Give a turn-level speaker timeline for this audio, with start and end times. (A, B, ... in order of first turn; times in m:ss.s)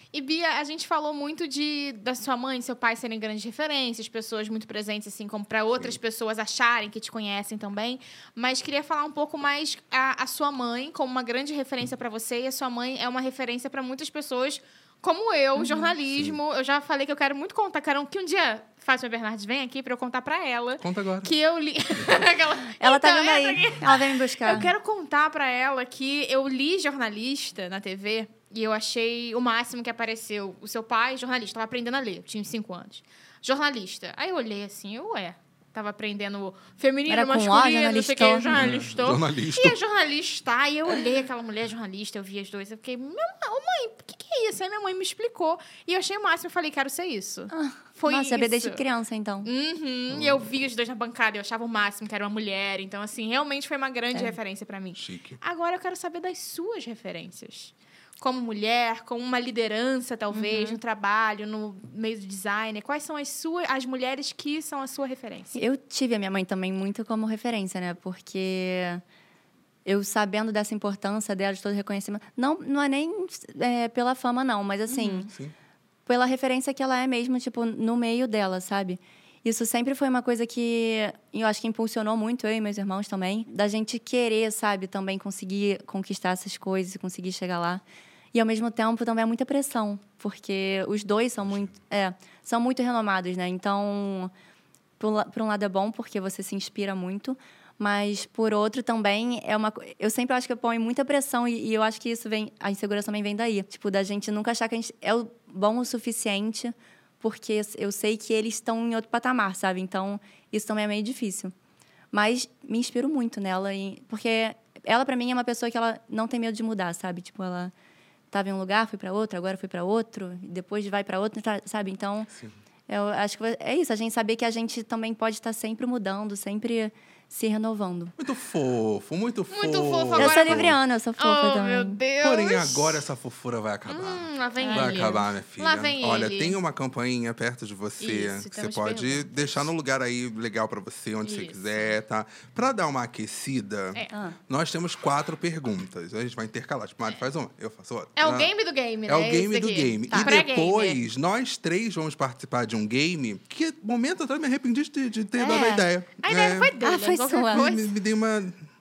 0:00.1-0:48.8 A
0:15.6-0:15.9 B
0:16.1-0:16.4 C
0:20.8-0:21.3 C
0:22.8-0:24.7 B
0:37.1-0:38.5 B
0:38.5-0:39.8 C
0:47.5-0:49.5 B
0:49.4-1:05.6 A
0:50.1-0:50.5 C
0:54.9-0:55.4 C
1:00.3-1:00.8 B
1:05.6-1:09.0 B
1:09.8-1:15.3 B
1:14.9-1:15.3 A
1:15.3-1:15.5 C
1:16.0-1:34.3 B
1:31.4-1:31.7 C
1:35.0-1:51.5 B
1:52.1-1:57.7 B
1:58.3-2:02.3 B
2:02.9-2:08.1 B
2:08.2-2:10.8 C
2:09.5-2:13.0 A
2:10.2-2:12.0 B
2:12.2-2:28.5 C
2:13.9-2:16.6 A
2:14.6-2:15.2 B
2:18.0-2:19.7 A
2:21.2-2:22.0 A
2:24.1-2:24.4 B
2:28.2-2:31.0 A
2:29.0-2:36.7 C
2:35.4-2:35.9 B
2:36.2-2:37.9 A
2:36.8-2:37.7 B
2:37.5-2:38.7 C